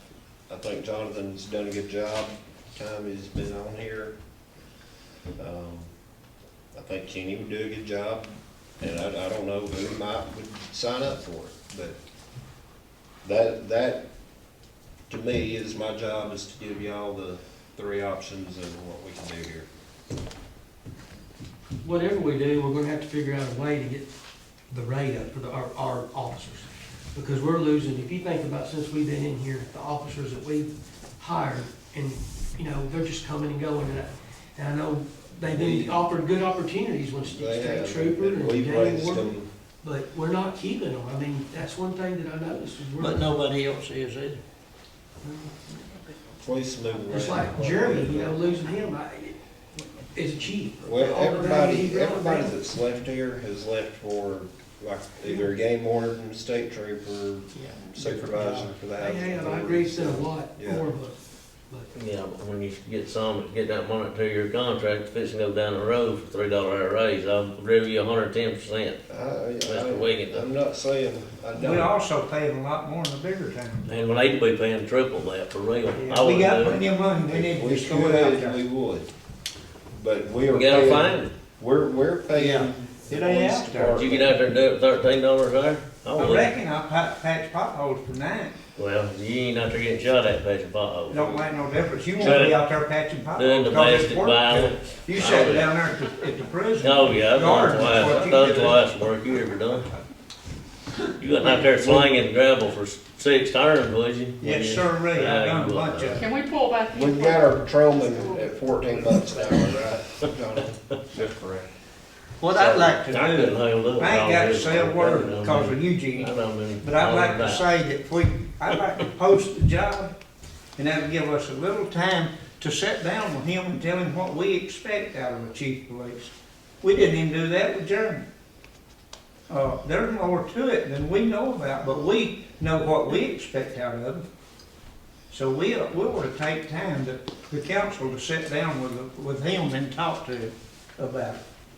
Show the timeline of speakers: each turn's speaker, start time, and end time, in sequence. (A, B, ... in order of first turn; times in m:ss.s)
0:00.5-0:04.1 A
0:05.4-0:05.9 A
0:06.7-0:08.2 A
0:08.8-0:12.0 A
0:13.2-0:14.1 A
0:15.1-0:19.7 A
0:21.8-0:24.1 B
0:24.7-0:43.3 B
0:35.4-0:36.0 A
0:37.2-0:39.5 A
0:43.0-0:44.4 C
0:45.2-0:45.7 B
0:46.4-0:48.4 A
0:47.1-0:49.4 B
0:50.0-0:52.6 B
0:50.8-1:00.9 A
0:58.0-0:58.7 C
0:59.0-1:01.2 B
1:01.9-1:09.0 D
1:09.1-1:11.9 A
1:09.6-1:10.5 D
1:11.5-1:13.9 C
1:13.8-1:16.8 D
1:15.9-1:18.6 C
1:17.2-1:19.1 A
1:19.9-1:24.4 A
1:20.5-1:21.3 D
1:22.3-1:24.0 C
1:23.9-1:26.5 D
1:26.2-1:28.6 C
1:28.7-1:31.2 D
1:31.1-1:38.9 C
1:32.2-1:32.6 D
1:33.3-1:35.7 D
1:36.8-1:39.9 D
1:41.2-1:46.2 D
1:41.4-1:42.1 C
1:44.4-1:46.2 C
1:46.2-1:49.6 E
1:46.9-1:51.7 A
1:52.4-2:00.1 C
1:52.5-1:57.7 D
2:00.8-2:08.2 C
2:09.5-2:14.2 C
2:15.3-2:21.4 C